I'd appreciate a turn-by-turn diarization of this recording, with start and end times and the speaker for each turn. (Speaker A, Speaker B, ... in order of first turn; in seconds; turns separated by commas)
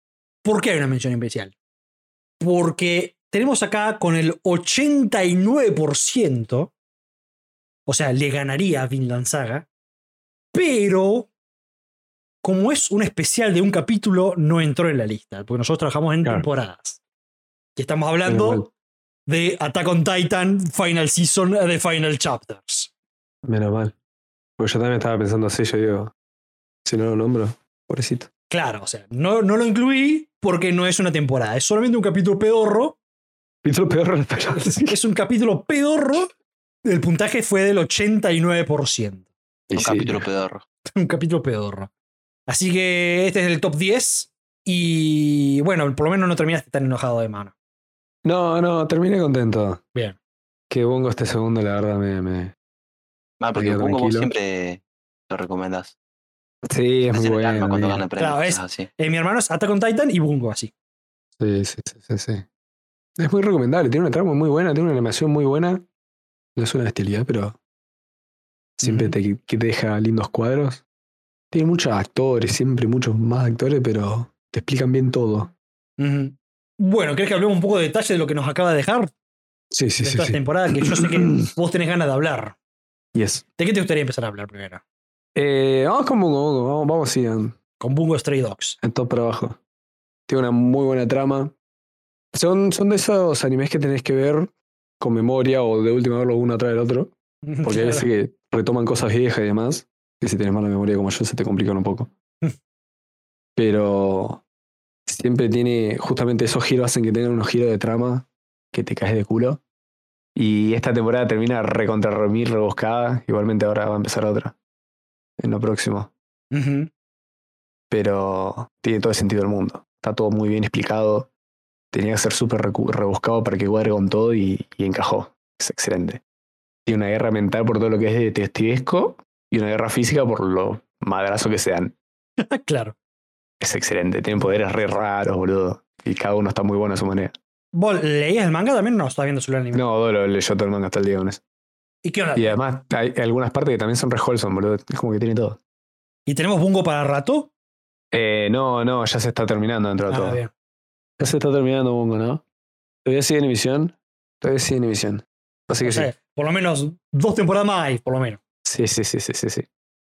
Speaker A: 0.4-1.5, Speaker A: 2.4-6.7, Speaker A: 7.9-9.7, Speaker A: 10.5-11.3, Speaker A: 12.4-17.0, Speaker A: 17.8-18.7, Speaker B: 18.2-18.7, Speaker A: 19.3-22.9, Speaker B: 23.4-23.9, Speaker B: 24.6-26.1, Speaker B: 26.9-28.3, Speaker A: 28.5-33.0, Speaker B: 33.6-35.0, Speaker A: 34.5-36.3, Speaker A: 36.8-39.3, Speaker B: 39.7-40.3, Speaker C: 39.8-40.6, Speaker A: 41.0-41.9, Speaker A: 42.5-47.5, Speaker B: 48.2-49.8, Speaker B: 50.7-52.5, Speaker C: 53.4-56.0, Speaker B: 53.5-54.3, Speaker B: 56.7-58.0, Speaker C: 57.1-58.9, Speaker A: 58.2-60.7, Speaker B: 61.4-62.5, Speaker B: 63.2-65.8, Speaker B: 66.6-67.6, Speaker A: 68.8-69.2, Speaker B: 68.8-70.8, Speaker B: 71.5-75.5, Speaker A: 76.0-79.1, Speaker B: 79.7-81.5, Speaker A: 80.0-82.6, Speaker B: 83.1-83.4, Speaker A: 83.6-84.8, Speaker B: 85.3-87.6, Speaker A: 87.8-88.8, Speaker B: 88.8-89.6, Speaker B: 90.3-91.5, Speaker B: 92.3-102.1, Speaker A: 97.5-98.1, Speaker B: 103.6-104.4, Speaker B: 105.1-109.6, Speaker B: 110.3-114.5, Speaker B: 115.4-116.1, Speaker A: 116.5-116.9, Speaker B: 117.9-121.3, Speaker B: 121.9-126.2, Speaker B: 126.9-132.0, Speaker A: 132.4-132.9, Speaker B: 133.6-137.3, Speaker A: 137.7-139.8, Speaker B: 139.7-141.4, Speaker A: 142.0-142.6, Speaker B: 142.3-145.6, Speaker A: 146.3-147.5, Speaker B: 148.1-150.4, Speaker A: 150.1-150.5, Speaker B: 151.2-152.4, Speaker B: 153.1-156.1, Speaker A: 155.8-158.4, Speaker B: 158.7-159.7